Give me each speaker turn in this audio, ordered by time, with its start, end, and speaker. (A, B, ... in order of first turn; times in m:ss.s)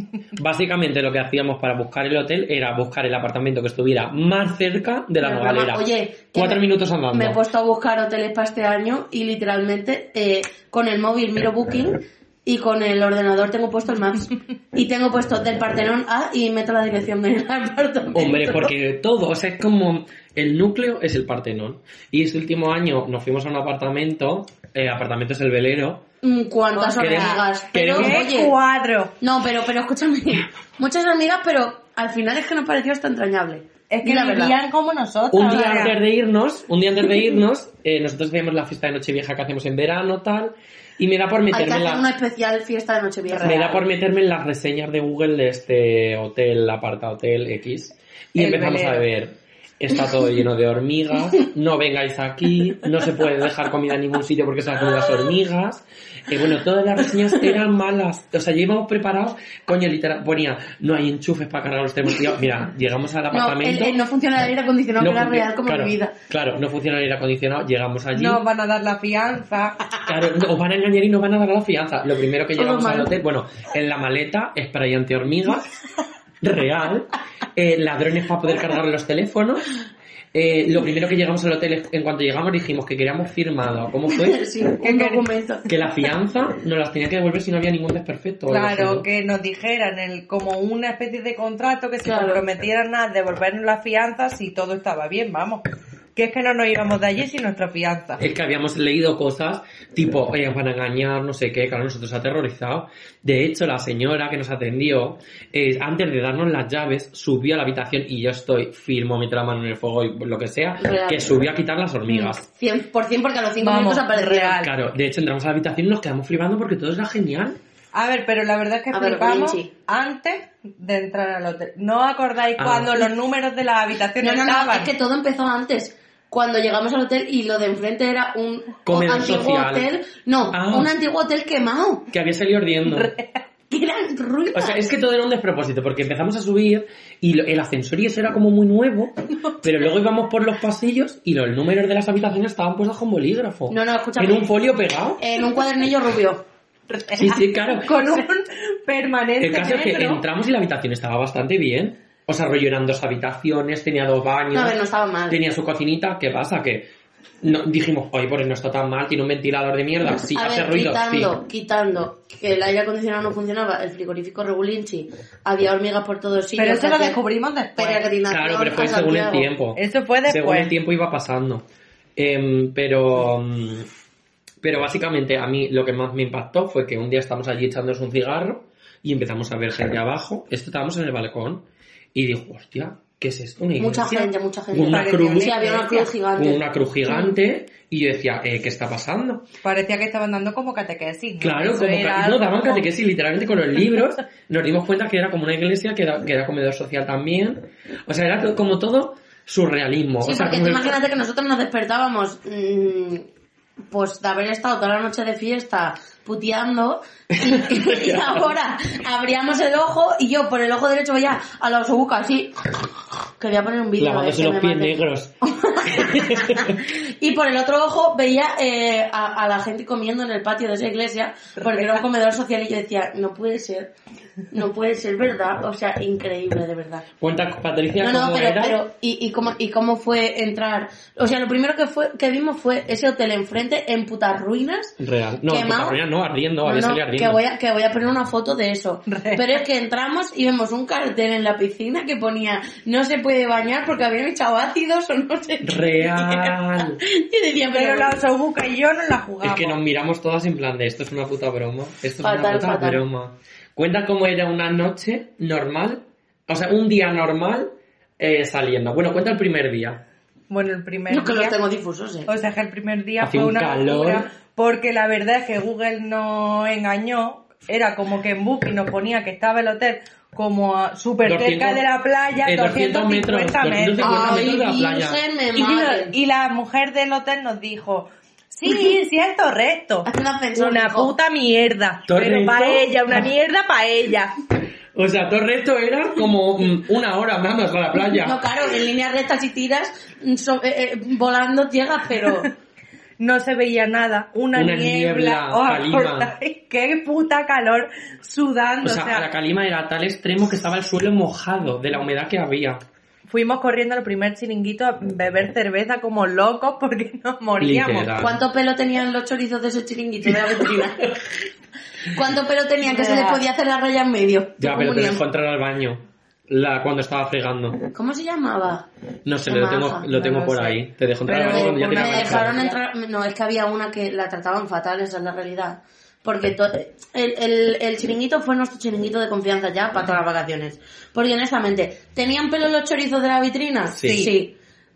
0:00.4-0:07.4 A
0:05.2-0:18.7 B
0:18.1-0:26.0 A
0:26.2-0:28.5 B
0:26.7-0:29.1 C
0:27.0-0:28.3 A
0:29.2-0:34.6 B
0:33.9-0:36.0 C
0:35.3-0:42.0 A
0:41.5-0:43.8 B
0:43.3-0:43.6 C
0:43.4-1:04.0 A
0:48.4-0:49.1 C
1:03.3-1:06.1 B
1:05.0-1:08.4 A
1:08.1-1:09.8 C
1:10.0-1:15.7 A
1:12.5-1:13.1 B
1:16.4-1:19.6 A
1:20.3-1:24.4 A
1:24.1-1:25.6 B
1:24.8-1:25.2 C
1:25.7-1:29.1 A
1:28.5-1:35.6 C
1:32.0-1:32.4 B
1:36.1-1:38.2 C
1:38.2-1:52.4 A
1:50.8-1:51.3 B
1:52.1-1:54.6 B
1:53.6-1:54.7 C
1:54.6-1:57.6 A
1:57.9-2:04.9 C
1:58.9-1:59.7 B
2:02.6-2:03.1 A
2:04.2-2:12.1 B
2:08.8-2:09.9 A
2:10.5-2:10.9 A
2:12.1-2:13.1 A
2:12.9-2:13.4 C
2:13.7-2:14.8 B
2:14.5-2:25.2 A
2:23.7-2:24.5 B
2:25.2-2:26.4 B
2:26.9-2:30.2 C
2:27.1-2:28.2 A
2:29.4-2:36.9 A
2:34.5-2:35.4 B
2:37.4-2:41.3 A
2:40.3-2:47.2 B
2:46.6-2:48.0 C
2:47.8-2:49.5 B
2:48.3-2:51.6 A
2:49.7-2:50.7 C
2:52.2-2:53.9 A
2:54.6-3:05.6 A
3:03.8-3:07.1 B
3:04.9-3:06.1 C
3:06.3-3:09.5 A
3:09.6-3:12.8 C
3:11.4-3:21.0 A
3:20.2-3:23.2 B
3:23.9-3:32.6 B
3:27.3-3:28.5 A
3:33.4-3:43.9 B
3:34.0-3:36.8 A
3:44.5-3:47.0 B
3:47.2-3:48.8 A
3:48.0-3:56.0 B
3:55.0-3:57.4 A
3:56.6-4:08.2 B
3:59.1-3:59.6 C
4:05.6-4:07.0 A
4:07.7-4:09.8 C
4:09.4-4:20.0 A
4:12.2-4:13.0 B
4:20.5-4:21.6 C
4:21.1-4:22.3 B
4:22.3-4:34.6 C
4:23.2-4:24.3 A
4:31.2-4:31.8 A
4:32.4-4:35.2 A
4:34.0-4:36.1 B
4:35.5-4:44.3 C
4:40.0-4:41.1 B
4:42.1-4:43.2 A
4:44.9-4:48.4 A
4:48.2-4:52.5 B
4:53.2-4:59.2 C
4:54.5-4:56.3 A
4:58.8-5:02.8 A
5:03.3-5:08.1 C
5:07.6-5:08.4 A
5:08.2-5:11.1 B
5:12.1-5:15.2 B
5:12.8-5:13.4 C
5:14.6-5:17.8 A
5:17.9-5:18.9 B
5:19.2-5:22.6 A
5:19.4-5:20.1 B
5:20.1-5:22.8 C
5:21.4-5:34.5 B
5:33.9-5:34.3 A
5:34.0-5:34.3 C